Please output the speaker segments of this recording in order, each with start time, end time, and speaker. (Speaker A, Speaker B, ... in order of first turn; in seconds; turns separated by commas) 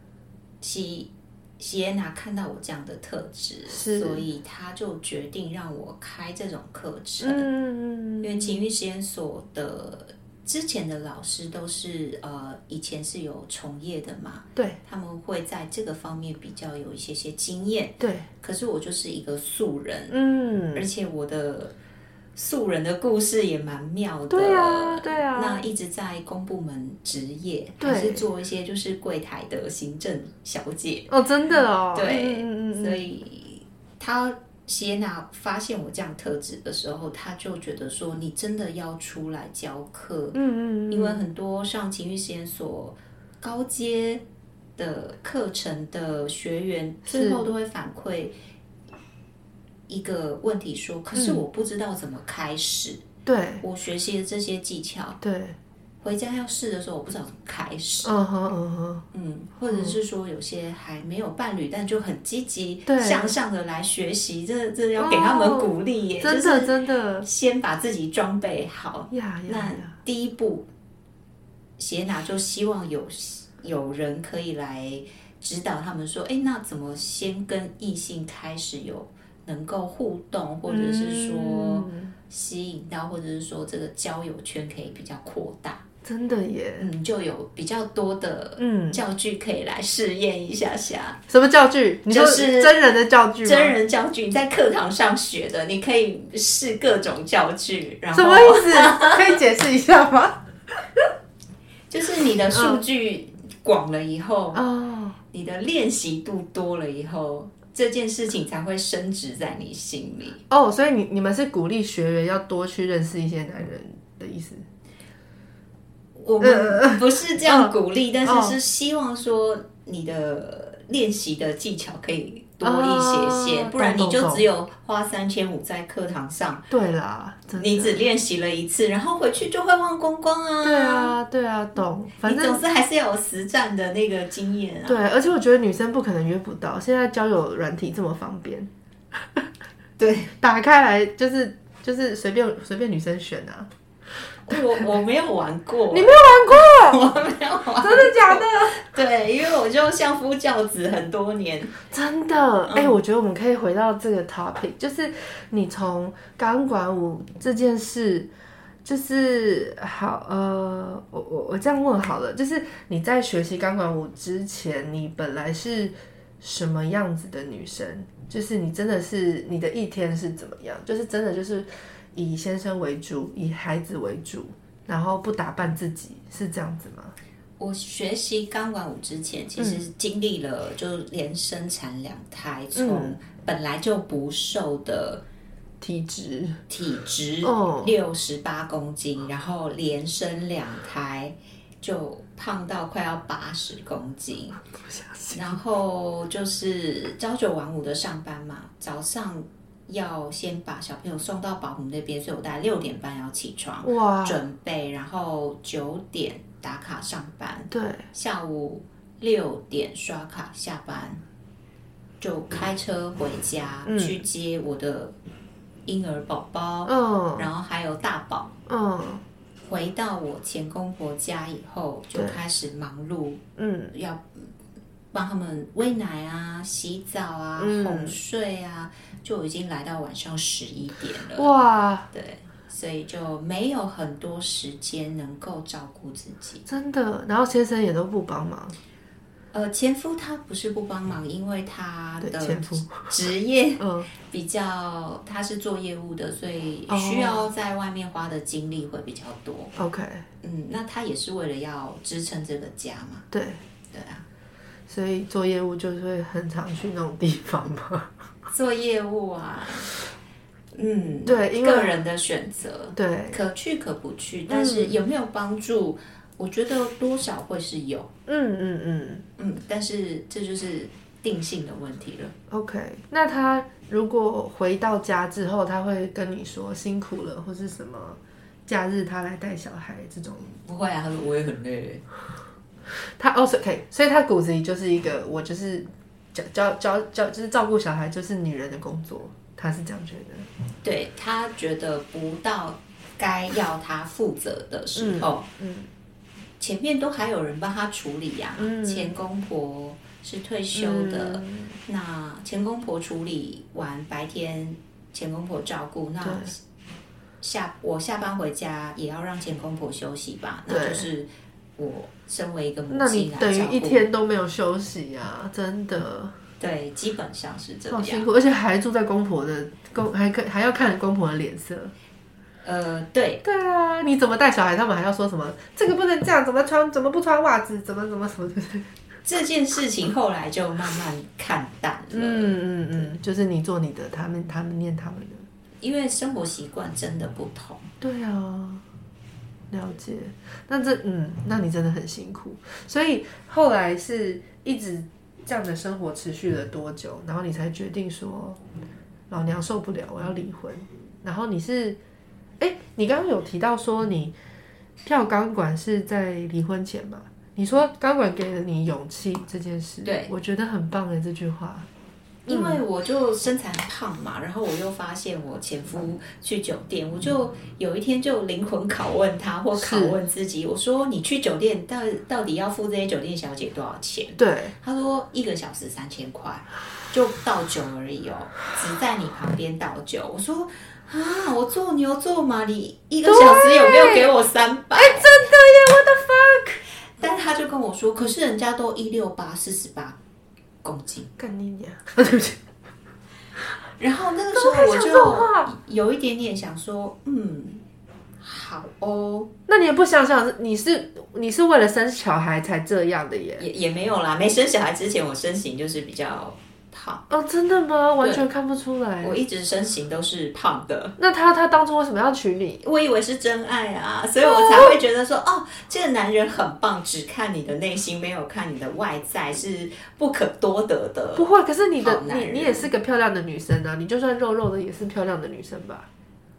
Speaker A: 0.6-7.5, Speaker B: 3.7-4.2, Speaker B: 7.2-8.6, Speaker A: 8.2-20.2, Speaker B: 18.0-18.3, Speaker B: 20.1-20.9, Speaker A: 20.7-21.7, Speaker A: 22.4-44.2, Speaker B: 24.3-25.6, Speaker B: 27.8-28.2, Speaker B: 31.1-33.0, Speaker B: 40.3-41.2, Speaker A: 44.8-48.3, Speaker B: 47.1-47.5, Speaker A: 49.9-53.0, Speaker B: 51.1-51.4, Speaker B: 53.3-53.6, Speaker A: 53.6-55.2, Speaker B: 55.2-55.6, Speaker A: 56.0-58.1, Speaker B: 58.0-59.1, Speaker A: 59.1-70.7, Speaker B: 59.7-60.0, Speaker B: 62.9-63.3, Speaker B: 65.0-67.3, Speaker B: 69.1-69.9, Speaker A: 71.8-85.8, Speaker B: 80.7-82.2, Speaker B: 86.0-86.9, Speaker A: 86.8-91.2, Speaker B: 88.6-89.0, Speaker B: 91.3-93.8, Speaker A: 92.1-92.9, Speaker A: 93.4-99.4, Speaker B: 98.1-101.1, Speaker A: 101.9-104.6, Speaker B: 102.5-102.8, Speaker B: 104.5-105.2, Speaker A: 105.3-110.4, Speaker B: 110.5-114.7, Speaker A: 116.2-126.7, Speaker B: 116.4-118.6, Speaker B: 122.6-124.4, Speaker B: 126.7-128.0, Speaker A: 127.6-131.2, Speaker B: 130.6-132.6, Speaker A: 132.2-135.0, Speaker B: 134.9-139.5, Speaker A: 140.0-140.3, Speaker B: 140.4-143.7, Speaker A: 144.5-151.8, Speaker B: 145.9-147.0, Speaker B: 147.8-148.8, Speaker B: 151.9-158.3, Speaker A: 152.7-152.9, Speaker B: 158.8-177.2, Speaker A: 177.6-185.2, Speaker B: 179.6-179.8, Speaker B: 182.8-183.2, Speaker B: 185.8-186.6, Speaker A: 186.7-194.6, Speaker B: 187.4-187.9, Speaker B: 194.7-195.6, Speaker A: 195.3-211.2, Speaker B: 203.8-204.4, Speaker B: 207.7-208.1, Speaker A: 212.2-215.2, Speaker B: 213.8-214.2, Speaker A: 215.9-218.6, Speaker B: 216.9-217.5, Speaker B: 218.7-219.2, Speaker A: 219.7-224.5, Speaker B: 223.6-223.9, Speaker A: 225.1-231.5, Speaker B: 227.6-228.2, Speaker B: 231.4-232.1, Speaker A: 232.1-236.7, Speaker B: 236.7-238.8, Speaker A: 239.5-249.7, Speaker B: 242.2-243.1, Speaker B: 243.8-244.1, Speaker B: 246.9-247.5, Speaker B: 249.8-250.2, Speaker A: 250.4-253.3, Speaker B: 253.3-253.6, Speaker A: 253.9-254.2, Speaker B: 254.9-258.1, Speaker A: 258.5-259.9, Speaker A: 260.7-268.1, Speaker B: 261.2-261.9, Speaker B: 262.9-263.4, Speaker B: 264.5-265.0, Speaker B: 268.3-269.2, Speaker A: 269.4-272.3, Speaker B: 272.5-280.5, Speaker A: 280.4-282.0, Speaker B: 283.2-290.5, Speaker A: 290.8-295.5, Speaker B: 295.0-295.9, Speaker A: 296.6-306.6, Speaker B: 298.6-299.1, Speaker B: 300.7-301.8, Speaker B: 306.2-306.5, Speaker A: 307.4-314.1, Speaker B: 310.7-311.1, Speaker B: 312.9-316.4, Speaker A: 316.6-318.3, Speaker B: 317.9-321.9, Speaker A: 322.6-323.4, Speaker B: 323.4-328.9, Speaker A: 329.2-333.0, Speaker B: 332.1-335.5, Speaker A: 335.8-337.9, Speaker B: 338.0-338.8, Speaker B: 339.7-348.6, Speaker B: 349.3-352.0, Speaker B: 352.6-354.3, Speaker B: 355.1-361.9, Speaker A: 360.1-360.3, Speaker A: 362.5-385.4, Speaker B: 362.5-362.8, Speaker B: 369.8-370.2, Speaker B: 374.4-374.7, Speaker B: 383.3-384.3, Speaker B: 384.9-386.8, Speaker A: 387.2-390.2, Speaker A: 390.8-391.3, Speaker B: 391.4-392.6, Speaker A: 394.0-397.8, Speaker B: 394.5-395.7, Speaker A: 398.4-399.5, Speaker B: 399.7-403.6, Speaker A: 403.6-407.2, Speaker B: 407.3-409.4, Speaker A: 409.2-411.2, Speaker B: 411.2-412.8, Speaker A: 412.8-421.5, Speaker B: 414.4-415.0, Speaker B: 421.4-426.1, Speaker A: 422.0-422.9